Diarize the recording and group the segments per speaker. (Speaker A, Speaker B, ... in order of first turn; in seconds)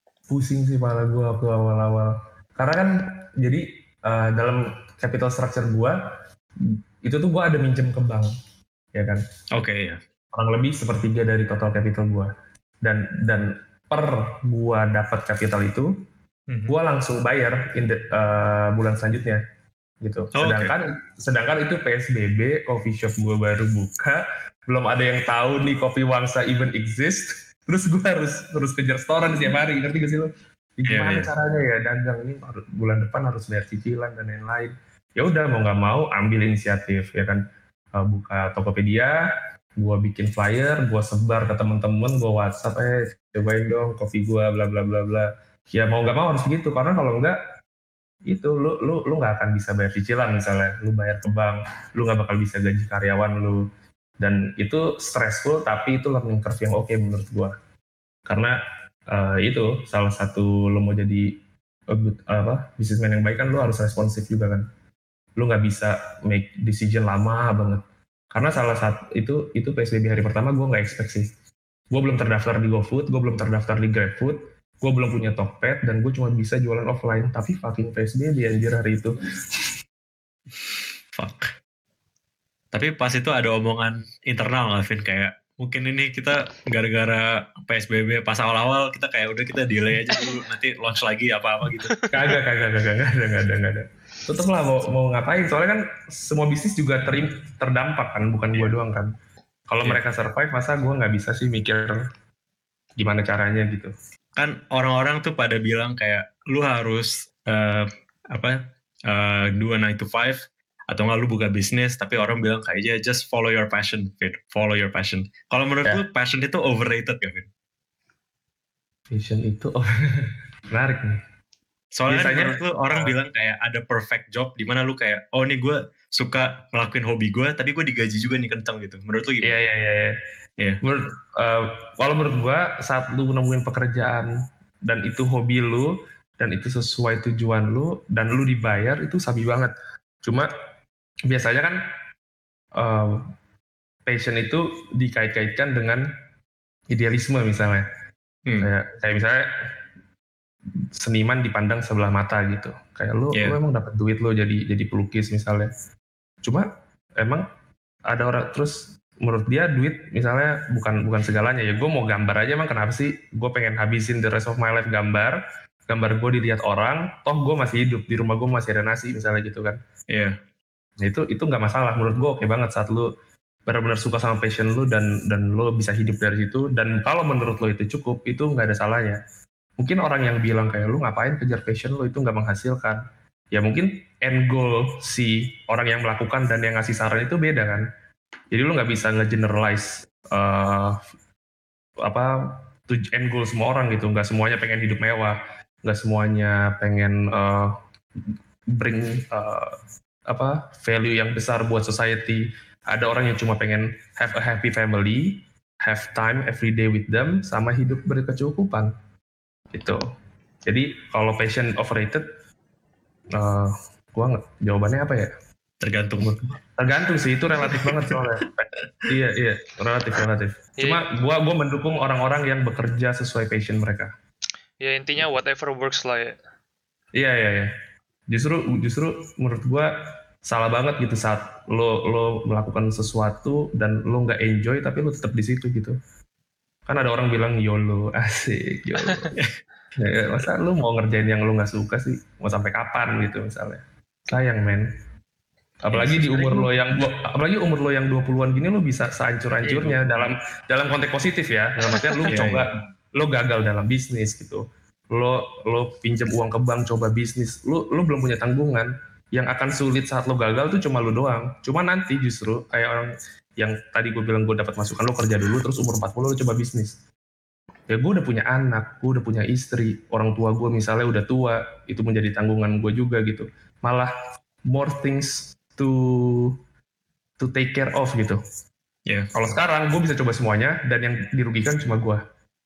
Speaker A: 0.3-6.0, 6.6-8.3, 8.9-9.2, 10.3-12.3, 12.8-15.9, 16.7-19.4, 20.0-37.4, 37.9-39.2, 39.8-47.4, 48.3-53.6, 54.2-57.5, 58.3-58.5, 59.1-61.3, 61.9-64.7, 65.4-71.3, 71.9-79.1, 92.1-99.1, 99.7-102.0, 103.0-103.9, 119.1-121.2, 122.1-123.1, 129.4-130.2, 130.8-134.3, 134.8-139.7, 141.3-141.8, 142.8-143.2, 144.1-146.0, 146.9-147.8, 148.6-149.5, 151.0-155.7, 157.2-157.4, 158.1-169.8, 171.0-173.1, 173.7-179.2, 179.8-183.0, 183.5-187.8, 188.5-191.0, 192.0-197.7, 198.7-199.8, 200.3-208.9, 209.7-210.0, 210.7-212.2, 213.3-215.3, 216.2-224.1, 227.1-227.7, 228.3-229.9, 230.4-235.9, 236.9-239.3, 240.0-244.9, 245.8-267.0, 267.9-274.1, 274.7-276.6, 277.4-278.4, 279.3-282.2
Speaker B: 9.5-10.0, 20.3-20.7, 30.9-31.3, 81.2-81.5, 82.7-92.0, 104.3-117.5, 122.0-129.6, 153.3-153.6, 170.1-170.4, 215.8-216.6, 217.6-218.4, 249.7-250.2, 252.3-252.7
Speaker C: 224.8-226.3, 245.9-246.7, 251.9-252.2